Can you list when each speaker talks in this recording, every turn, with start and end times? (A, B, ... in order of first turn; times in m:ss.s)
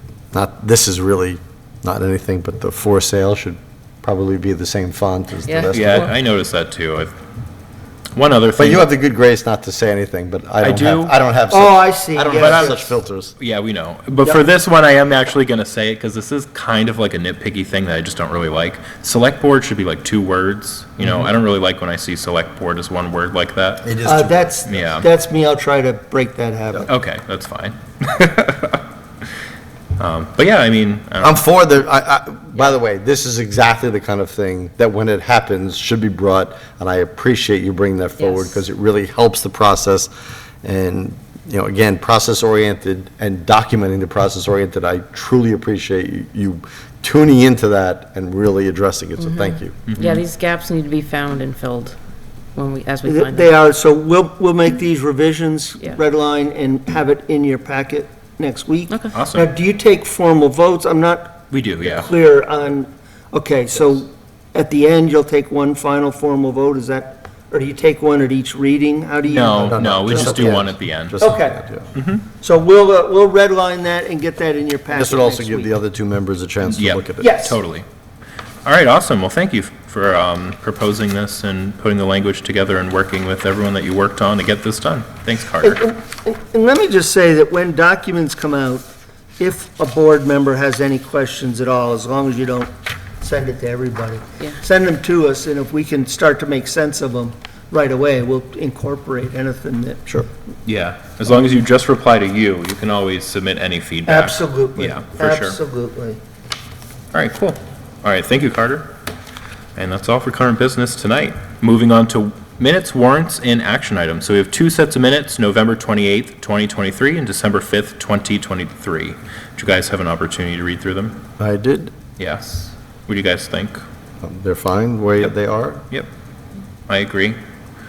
0:00.3-0:06.1 A
0:05.5-0:06.1 B
0:05.7-0:07.1 C
0:08.1-0:08.9 C
0:08.6-0:13.3 A
0:10.6-0:11.1 C
0:11.5-0:12.9 D
0:12.3-0:23.9 C
0:23.8-0:24.6 A
0:24.0-0:26.9 D
0:24.6-0:25.1 C
0:26.9-0:28.8 C
0:30.0-0:31.4 C
0:31.2-0:40.1 A
0:38.2-0:38.6 B
0:40.6-0:49.8 A
0:49.2-0:52.0 B
0:49.9-0:50.2 C
0:52.6-0:53.6 B
0:53.0-1:10.6 D
0:58.9-0:59.2 B
0:59.1-0:59.5 C
1:01.5-1:02.1 C
1:09.2-1:11.2 C
1:09.6-1:11.9 A
1:11.2-1:11.6 D
1:11.9-1:12.3 C
1:12.4-1:15.7 D
1:14.9-1:17.4 A
1:16.6-1:17.8 C
1:17.2-1:17.6 D
1:18.6-1:25.8 C
1:25.6-1:40.0 D
1:40.6-1:45.6 C
1:44.0-1:46.2 D
1:47.1-1:48.9 C
1:49.8-2:01.2 C
2:01.4-2:01.9 A
2:02.2-2:03.8 C
2:04.2-2:05.8 A
2:06.9-2:07.4 C